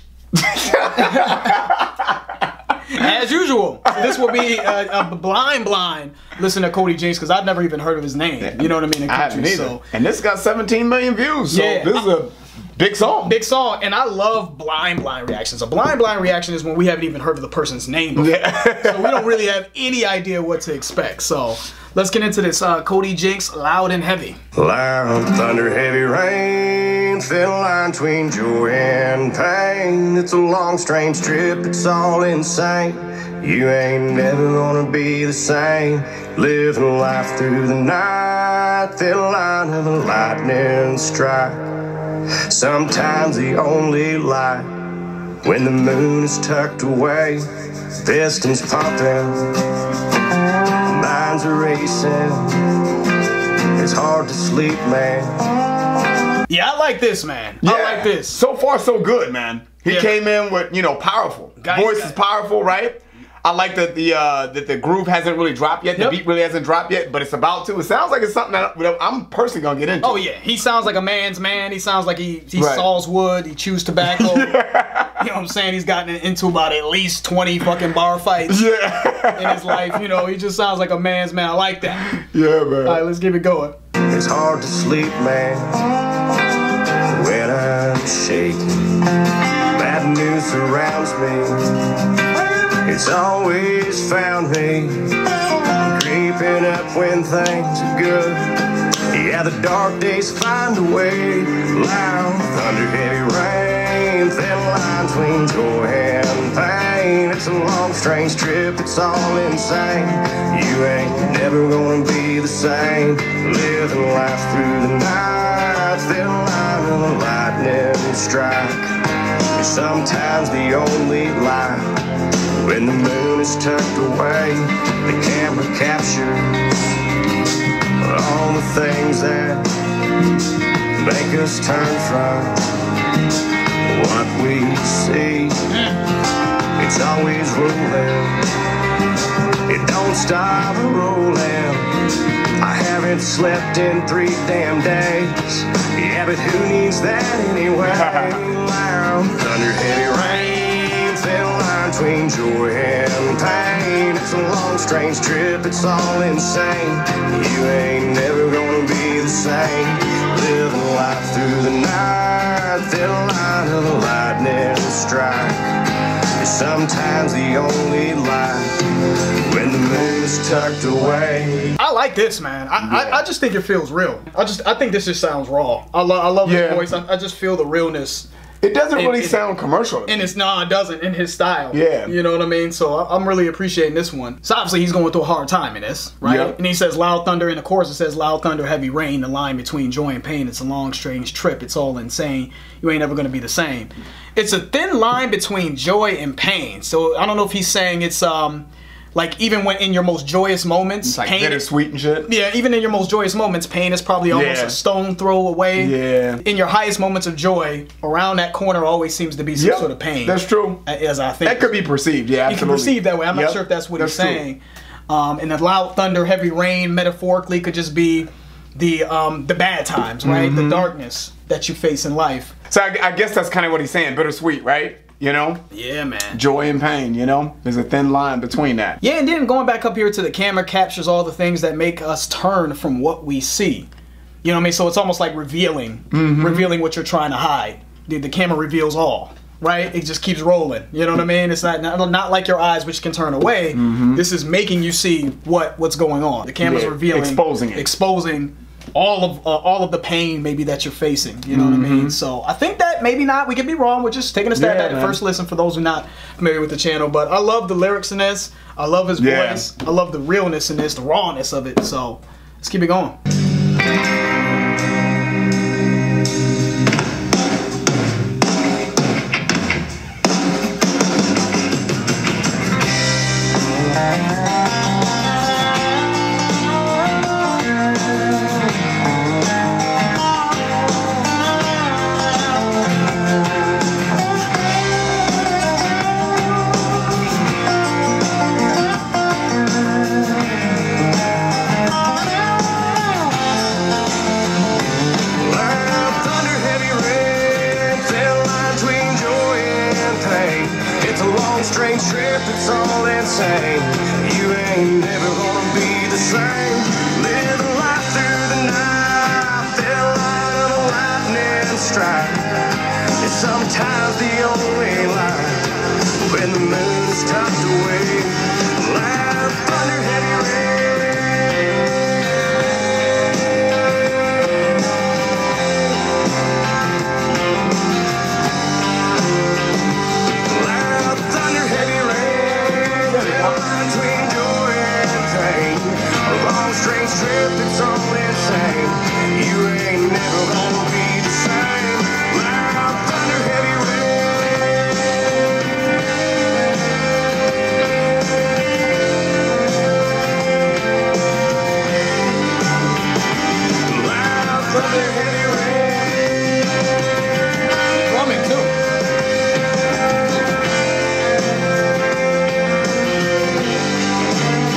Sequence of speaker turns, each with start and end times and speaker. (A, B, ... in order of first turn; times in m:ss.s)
0:00.3-0:02.1 A
0:00.7-0:01.7 B
0:02.9-0:09.8 B
0:03.9-0:04.8 A
0:08.4-0:13.4 A
0:11.5-0:12.0 B
0:13.2-0:24.4 B
0:18.2-0:19.4 A
0:24.6-0:49.8 C
0:50.8-0:52.7 C
0:53.8-0:55.4 C
0:56.5-0:58.4 B
0:57.6-1:10.2 A
0:59.8-1:00.1 B
1:01.6-1:02.2 B
1:10.0-1:14.6 B
1:12.6-1:12.8 A
1:14.0-1:15.2 A
1:15.1-1:18.7 B
1:18.5-1:20.2 A
1:19.2-1:22.2 B
1:22.0-1:23.0 A
1:22.8-1:23.7 B
1:24.1-1:25.8 C
1:27.0-1:31.9 C
1:32.6-1:58.9 C
1:59.5-2:02.0 C
2:02.6-2:06.8 C
2:08.0-2:09.7 C
2:11.0-2:12.6 C
2:13.9-2:15.6 C
2:15.7-2:16.0 B
2:16.8-2:18.5 C
2:19.7-2:21.9 C
2:22.6-2:51.8 C
2:27.8-2:28.4 A
2:51.8-2:58.3 B
2:52.8-2:53.2 A
2:56.4-2:56.9 A
2:58.6-3:00.3 A
2:58.9-2:59.4 B
3:00.0-3:21.6 B
3:01.7-3:02.1 A
3:06.2-3:06.6 A
3:21.1-3:22.3 A
3:22.2-3:31.7 B
3:24.3-3:24.8 A
3:25.8-3:26.4 A
3:29.6-3:30.8 A
3:31.4-3:34.4 A
3:32.4-3:42.5 B
3:40.2-3:40.9 A
3:42.7-3:45.6 A
3:45.7-3:46.4 B
3:46.3-3:49.0 A
3:49.0-3:53.9 B
3:54.4-4:23.2 B
3:56.1-3:56.7 A
4:03.7-4:04.2 A
4:06.6-4:07.9 A
4:11.5-4:12.2 A
4:14.5-4:15.2 A
4:19.2-4:19.6 A
4:55.4-5:21.3 C
5:30.4-5:44.7 C
5:33.2-5:33.5 A
5:53.8-5:56.3 C
5:58.0-5:58.7 B